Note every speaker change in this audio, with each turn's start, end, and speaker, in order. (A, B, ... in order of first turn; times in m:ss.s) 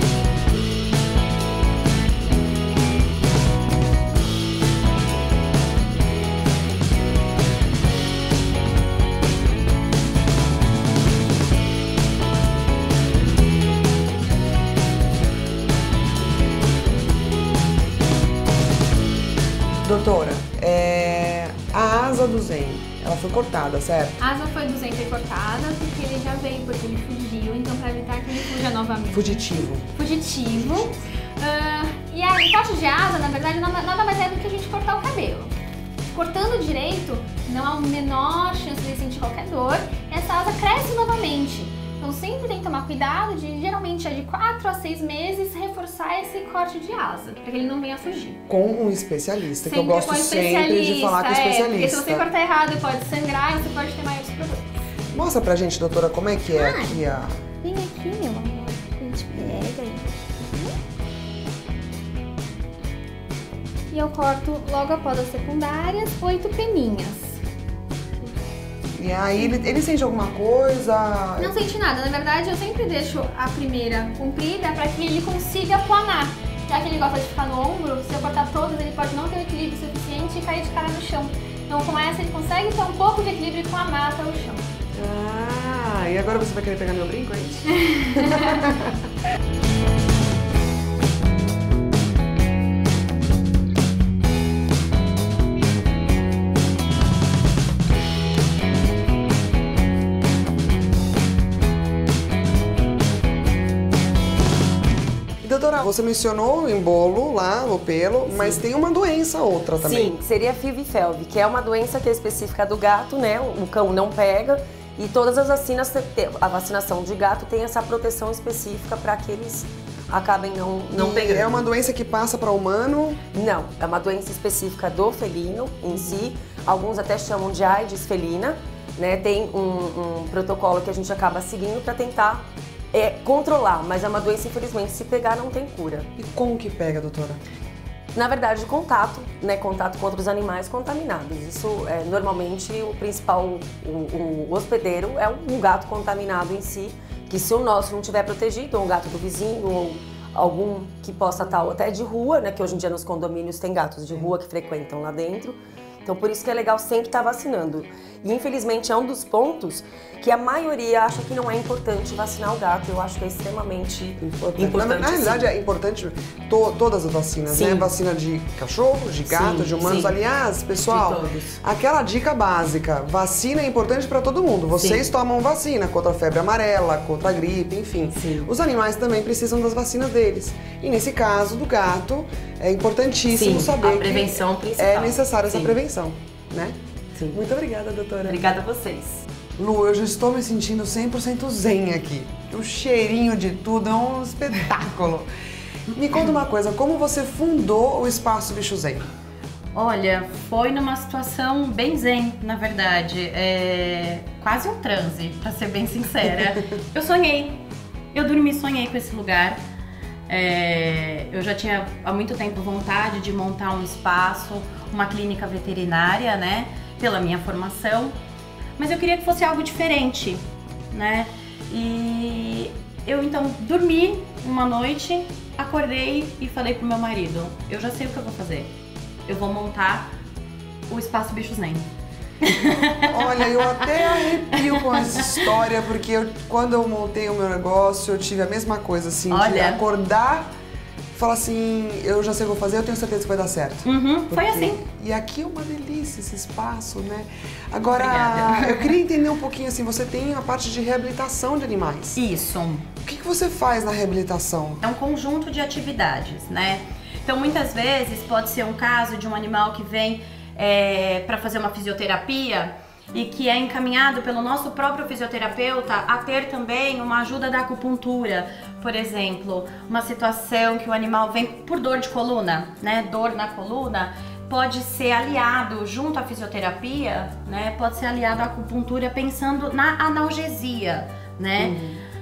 0:19.8-0:24.2 A
0:24.2-0:35.5 B
0:29.1-0:29.9 A
0:36.1-0:48.4 B
0:48.5-0:52.3 A
0:49.6-0:54.7 B
0:55.1-0:57.4 A
0:56.5-0:57.0 B
0:57.6-1:00.8 B
1:03.9-1:07.4 B
1:08.9-1:11.6 A
1:11.4-1:24.6 B
1:24.9-1:28.9 A
1:27.9-1:28.6 B
1:45.4-1:50.1 A
1:49.8-2:01.6 C
2:00.9-2:03.2 A
2:03.3-2:16.1 C
2:16.2-2:17.4 A
2:18.1-2:45.4 C
2:44.2-3:06.8 A
2:47.5-2:47.9 C
2:49.3-2:50.1 C
2:50.9-2:51.6 C
2:54.8-2:55.0 C
2:58.1-2:58.5 C
3:03.3-3:05.8 C
3:07.3-3:08.5 A
3:08.2-3:09.2 C
3:09.6-3:15.3 A
3:15.9-3:19.1 A
3:19.8-3:27.6 D
3:28.1-3:29.6 D
3:30.3-3:38.1 D
3:38.8-3:48.7 D
3:49.2-3:50.1 D
3:50.9-3:51.9 D
3:52.4-3:55.6 D
3:53.1-4:00.5 A
3:59.3-3:59.8 D
4:01.1-4:12.2 A
4:03.8-4:04.8 D
4:07.9-4:09.0 D
4:12.1-4:12.9 D
4:13.0-4:14.8 A
4:14.8-4:41.8 D
4:41.6-4:42.0 A